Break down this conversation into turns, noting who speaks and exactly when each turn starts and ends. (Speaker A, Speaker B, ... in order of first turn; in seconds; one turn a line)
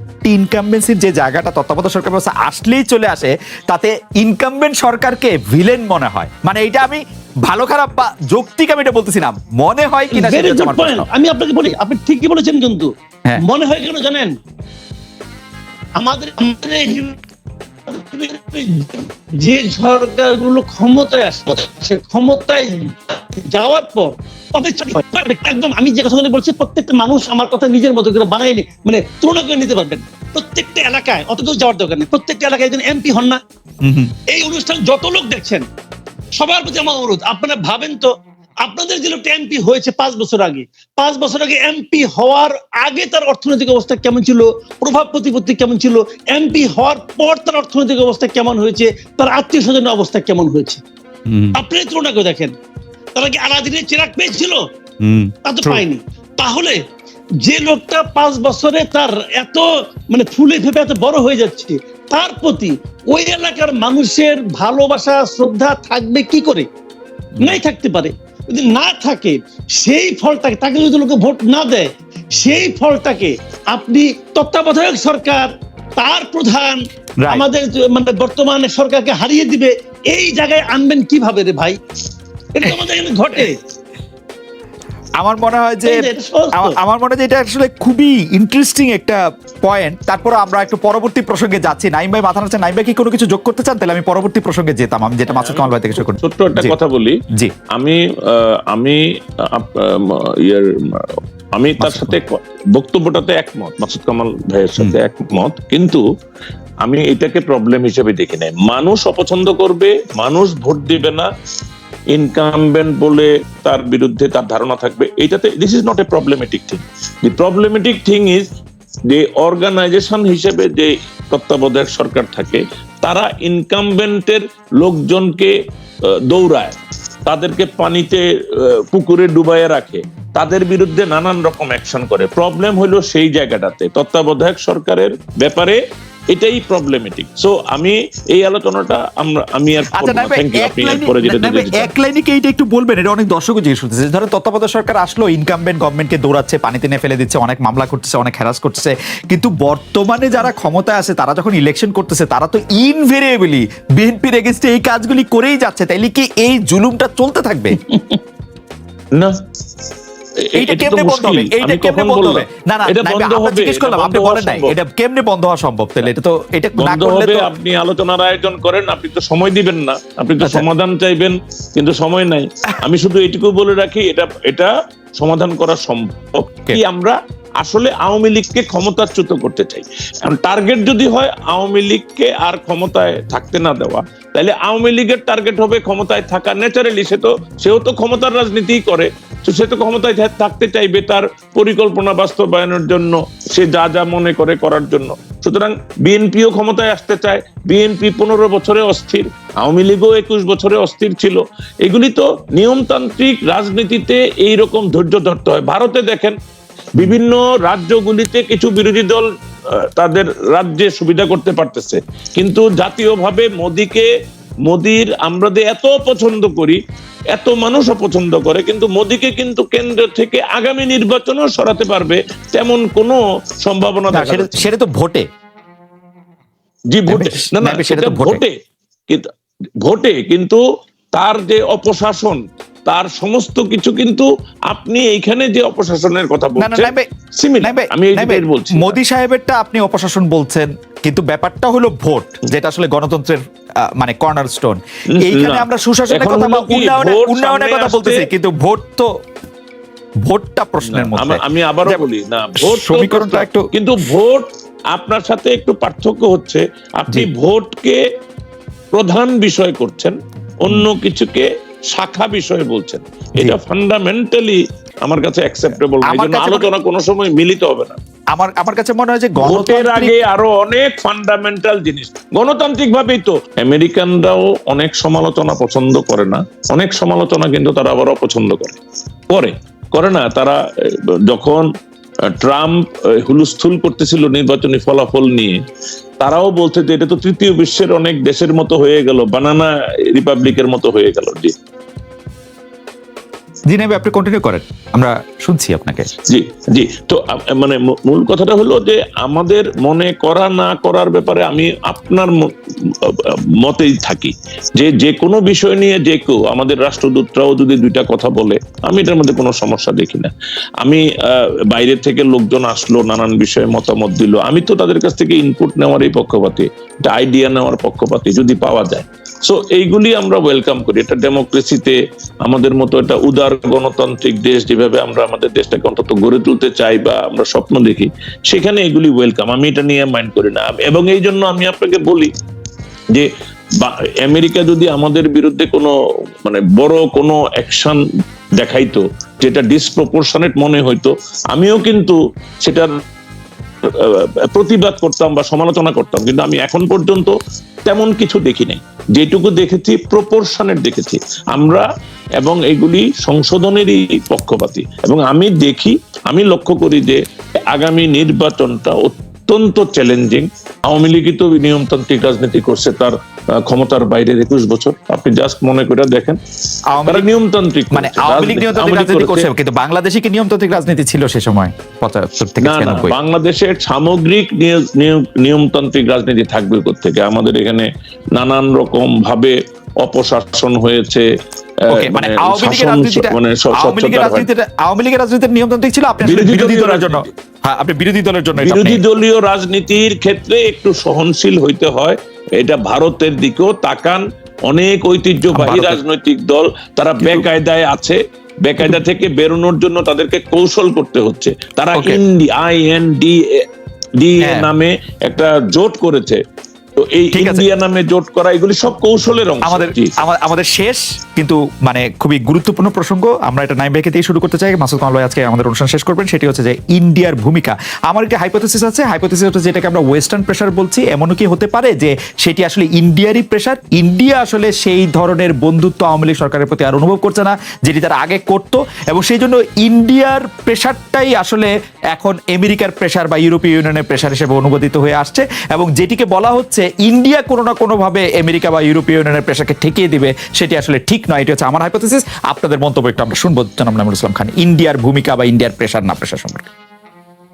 Speaker A: 0.2-11.1
Speaker B: 10.1-12.9
Speaker B: 13.4-14.4
Speaker B: 16.0-17.2
Speaker B: 17.9-33.4
Speaker A: 33.8-34.1
Speaker B: 34.3-35.6
Speaker B: 36.4-38.1
Speaker B: 38.6-50.8
Speaker A: 51.3-51.5
Speaker B: 51.5-52.5
Speaker B: 53.1-54.6
Speaker A: 55.0-55.8
Speaker B: 55.4-56.8
Speaker B: 57.4-66.7
Speaker B: 67.4-81.8
Speaker B: 82.5-83.6
Speaker A: 85.2-96.8
Speaker B: 85.8-86.8
Speaker C: 95.3-97.2
Speaker C: 97.7-106.0
Speaker A: 101.8-102.2
Speaker C: 106.8-111.3
Speaker C: 112.1-118.5
Speaker C: 119.1-125.5
Speaker C: 126.3-126.7
Speaker C: 127.2-135.8
Speaker C: 136.3-141.9
Speaker A: 139.9-157.8
Speaker B: 157.8-158.2
Speaker C: 160.4-164.7
Speaker A: 160.6-167.5
Speaker C: 166.8-206.3
Speaker A: 170.4-170.7
Speaker C: 207.0-209.3
Speaker C: 209.8-214.1
Speaker C: 214.7-216.8
Speaker C: 217.3-224.7
Speaker A: 224.1-225.2
Speaker C: 226.9-228.5
Speaker A: 227.1-228.4
Speaker C: 229.8-230.6
Speaker C: 231.1-239.0
Speaker A: 236.6-237.1
Speaker A: 237.6-249.1
Speaker C: 245.1-248.3
Speaker A: 250.2-252.0
Speaker C: 250.8-258.0
Speaker A: 252.6-253.7
Speaker C: 258.9-267.9
Speaker A: 266.1-266.7
Speaker A: 268.3-270.1
Speaker C: 269.4-278.8
Speaker C: 279.3-281.7
Speaker C: 282.4-285.6
Speaker C: 286.2-291.5
Speaker A: 293.7-296.1
Speaker C: 296.2-310.3
Speaker C: 310.8-332.3
Speaker C: 333.8-335.9
Speaker C: 336.4-338.0
Speaker C: 338.6-342.9
Speaker C: 343.9-347.3
Speaker C: 347.9-351.9
Speaker C: 352.4-357.2
Speaker C: 357.7-366.4
Speaker A: 366.9-367.3
Speaker C: 367.1-369.5
Speaker A: 367.9-373.1
Speaker C: 372.6-381.2
Speaker C: 381.9-384.5
Speaker A: 381.9-389.0
Speaker C: 386.2-387.3
Speaker C: 388.6-403.6
Speaker A: 395.5-396.0
Speaker A: 397.2-397.4
Speaker A: 401.9-402.2
Speaker C: 404.2-406.4
Speaker A: 404.4-404.7
Speaker C: 406.9-410.1
Speaker A: 407.3-407.6
Speaker A: 409.6-446.7